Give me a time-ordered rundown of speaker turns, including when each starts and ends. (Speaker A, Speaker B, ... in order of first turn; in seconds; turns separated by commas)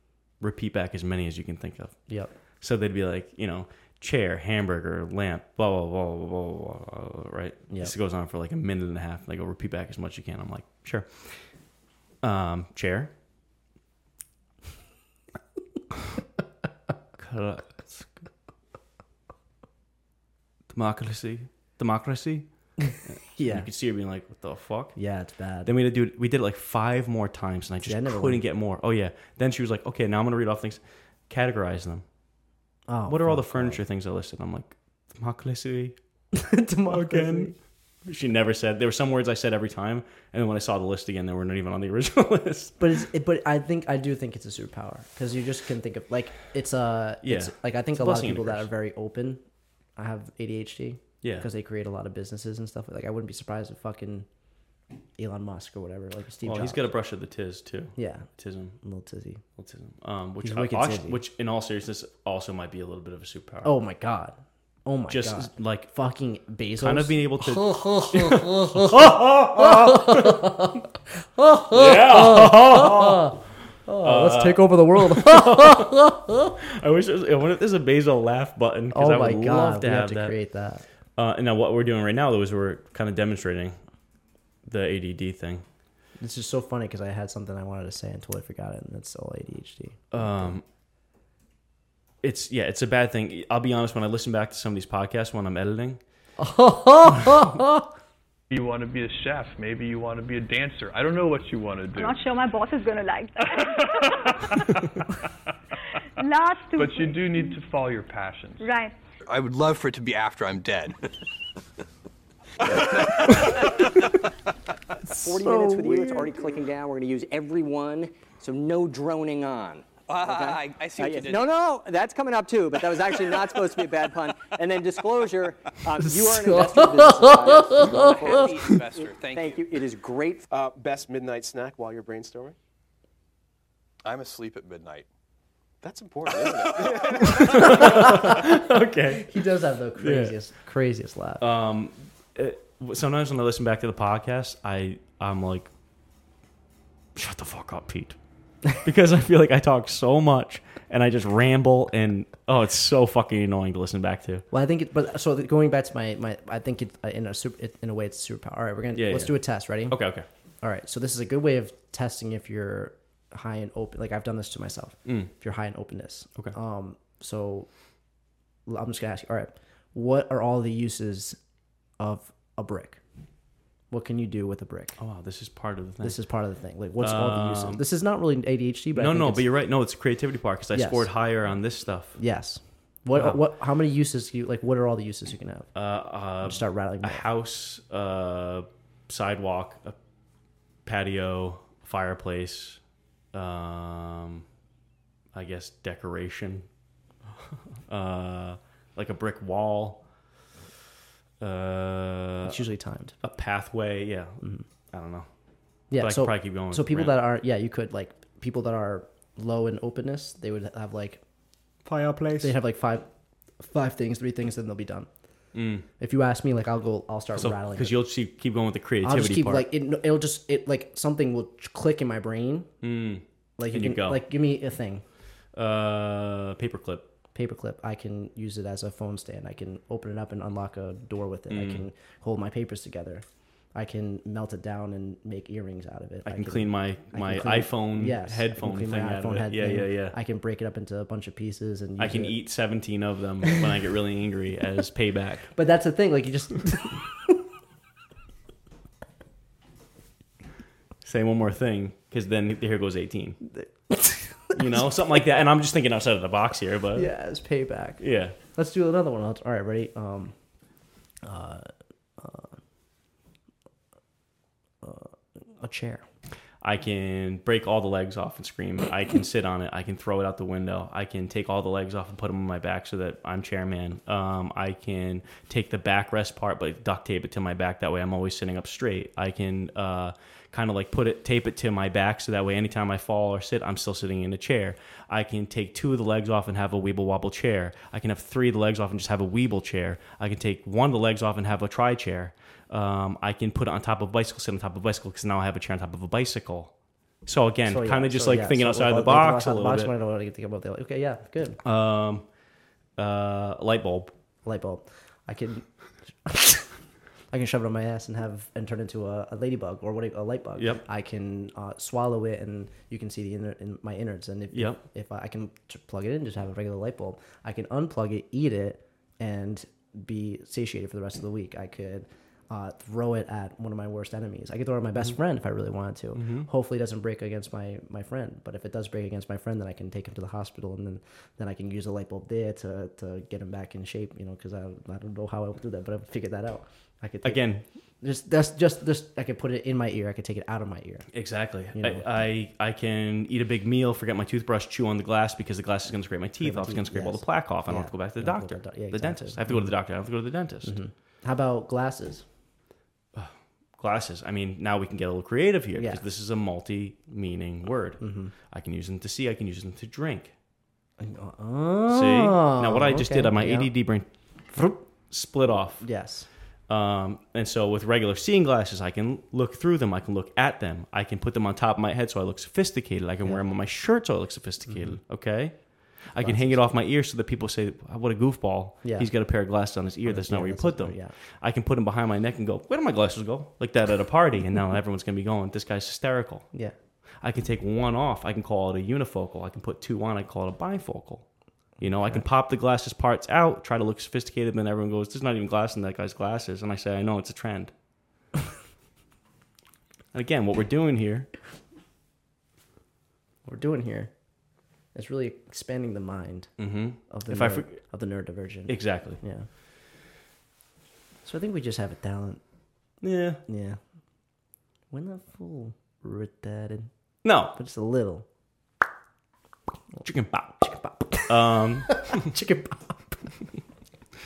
Speaker A: 0.4-2.0, Speaker A: 2.6-11.5, Speaker A: 12.2-13.1, Speaker A: 17.2-18.1, Speaker A: 20.7-22.5, Speaker A: 23.1-25.0, Speaker B: 23.4-23.7, Speaker B: 25.0-25.7, Speaker A: 25.6-32.0, Speaker B: 27.8-28.4, Speaker B: 32.9-33.8, Speaker A: 33.1-36.0, Speaker B: 36.4-37.5, Speaker A: 36.9-43.0, Speaker B: 42.8-49.4, Speaker A: 47.2-48.7, Speaker B: 50.0-54.3, Speaker A: 51.2-51.5, Speaker B: 55.2-56.9, Speaker A: 56.4-58.8, Speaker B: 58.0-58.3, Speaker B: 58.8-59.4, Speaker A: 59.6-63.7, Speaker B: 60.4-61.2, Speaker B: 63.6-76.2, Speaker A: 65.1-65.9, Speaker A: 66.8-70.6, Speaker A: 71.7-73.4, Speaker A: 74.0-80.3, Speaker B: 78.9-80.8, Speaker A: 81.2-83.8, Speaker A: 84.7-85.7, Speaker B: 86.2-90.5, Speaker A: 90.1-90.7, Speaker A: 92.2-96.0, Speaker B: 96.4-97.9, Speaker C: 98.5-102.2, Speaker D: 101.9-103.9, Speaker D: 106.2-107.6, Speaker C: 106.8-108.7, Speaker D: 108.6-109.0, Speaker E: 109.2-111.0, Speaker E: 112.7-114.0, Speaker B: 115.1-116.2, Speaker F: 115.2-130.4, Speaker E: 120.1-121.5, Speaker B: 126.1-128.5, Speaker E: 127.7-129.7, Speaker G: 130.5-132.6, Speaker E: 134.0-135.1, Speaker G: 135.8-136.2, Speaker E: 136.2-137.4, Speaker A: 137.2-139.3, Speaker B: 137.5-138.5, Speaker B: 139.2-141.5, Speaker A: 140.0-140.3, Speaker A: 141.4-145.7, Speaker A: 147.2-148.2, Speaker A: 148.8-154.4, Speaker B: 154.5-160.0, Speaker A: 159.0-160.3, Speaker B: 160.6-167.7, Speaker A: 165.1-165.3, Speaker B: 168.7-171.4, Speaker B: 172.0-173.0, Speaker B: 173.9-175.0, Speaker A: 175.0-176.2, Speaker B: 176.0-179.5, Speaker A: 177.0-177.8, Speaker A: 178.9-182.2, Speaker B: 180.8-181.1, Speaker B: 182.2-185.7, Speaker A: 183.2-183.4, Speaker A: 185.8-190.0, Speaker B: 186.4-187.2, Speaker A: 190.8-192.8, Speaker A: 193.3-194.5, Speaker A: 195.3-196.7, Speaker A: 197.9-200.0, Speaker A: 201.4-202.7, Speaker B: 202.4-203.2, Speaker A: 203.2-205.3, Speaker B: 205.9-211.2, Speaker A: 206.0-207.2, Speaker A: 211.8-212.6, Speaker B: 212.4-213.1, Speaker B: 213.6-215.1, Speaker A: 215.5-215.9, Speaker B: 216.0-218.0, Speaker A: 217.3-219.7, Speaker B: 219.0-222.7, Speaker A: 222.8-224.2, Speaker B: 223.6-225.0, Speaker A: 225.5-227.1, Speaker B: 227.3-233.2, Speaker A: 231.5-231.8, Speaker B: 233.8-242.4, Speaker A: 236.3-240.2, Speaker A: 242.0-245.5, Speaker B: 245.5-247.0, Speaker A: 251.0-253.4, Speaker B: 253.5-254.9, Speaker A: 254.5-257.1, Speaker B: 256.9-260.4, Speaker A: 258.0-258.4, Speaker B: 261.2-262.5, Speaker B: 264.8-266.0, Speaker A: 266.6-296.7, Speaker A: 297.2-299.9, Speaker B: 297.7-301.6, Speaker A: 301.6-302.3, Speaker A: 303.0-304.1, Speaker B: 304.4-305.7, Speaker B: 306.2-306.7, Speaker B: 307.3-337.4, Speaker A: 310.6-310.8, Speaker A: 314.5-314.8, Speaker A: 326.1-326.5, Speaker A: 337.2-337.6, Speaker B: 338.0-341.1, Speaker A: 341.1-350.8, Speaker B: 341.7-342.1, Speaker B: 346.4-349.7, Speaker B: 350.6-352.2, Speaker A: 353.1-360.3, Speaker B: 355.8-356.0, Speaker B: 358.0-358.3, Speaker B: 361.0-363.7, Speaker A: 361.9-365.9, Speaker B: 365.8-366.3, Speaker A: 366.7-386.5, Speaker B: 374.7-375.0, Speaker B: 376.2-376.7, Speaker B: 378.8-379.1, Speaker B: 380.1-381.1, Speaker A: 387.2-391.3, Speaker A: 391.8-397.7, Speaker B: 391.8-392.3, Speaker A: 400.1-401.3, Speaker B: 403.5-404.1, Speaker B: 404.9-406.5, Speaker A: 406.6-407.8, Speaker B: 407.1-409.5, Speaker A: 408.7-409.2, Speaker B: 411.2-412.4, Speaker A: 413.0-413.4, Speaker B: 413.5-413.8, Speaker B: 414.9-416.9, Speaker A: 417.2-417.6, Speaker B: 417.5-418.3, Speaker A: 420.1-420.7, Speaker B: 420.6-423.3, Speaker A: 421.3-422.3